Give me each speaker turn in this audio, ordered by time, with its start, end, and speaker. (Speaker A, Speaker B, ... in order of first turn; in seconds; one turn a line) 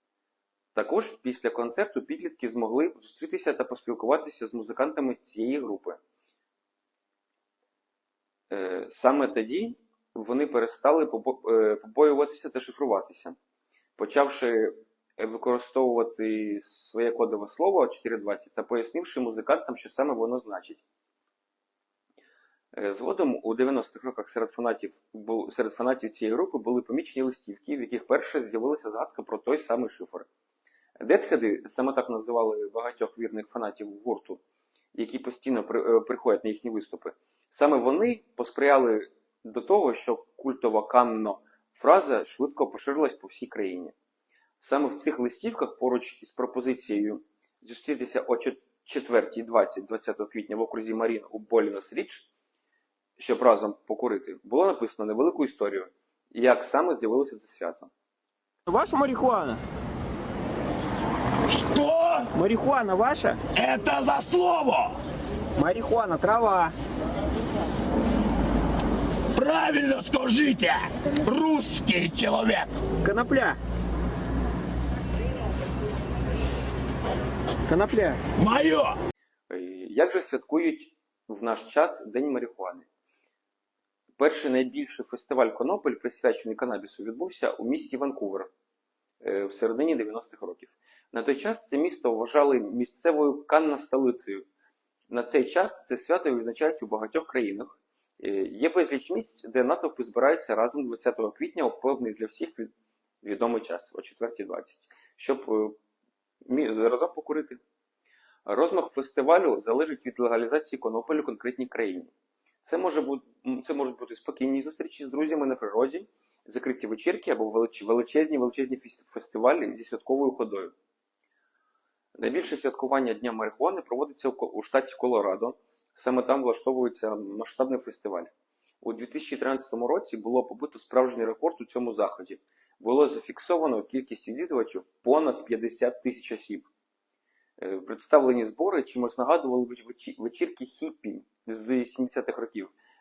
Speaker A: 0.8-6.0
Speaker A: 8.5-13.4
Speaker A: 14.0-20.8
Speaker A: 22.7-30.3
Speaker A: 31.0-34.4
Speaker A: 35.0-44.0
Speaker A: 44.6-52.3
Speaker A: 53.2-57.9
Speaker B: 58.7-59.6
Speaker C: 61.5-62.3
Speaker B: 62.3-63.4
Speaker C: 63.5-65.0
Speaker B: 65.6-66.7
Speaker C: 69.4-72.7
Speaker B: 73.0-73.6
Speaker B: 77.7-78.2
Speaker C: 78.4-79.0
Speaker A: 79.5-82.9
Speaker A: 84.2-88.5
Speaker A: 89.2-94.5
Speaker A: 95.1-102.7
Speaker A: 103.2-105.8
Speaker A: 106.5-107.6
Speaker A: 108.5-112.1
Speaker A: 112.6-120.7
Speaker A: 122.2-136.7
Speaker A: 137.6-142.7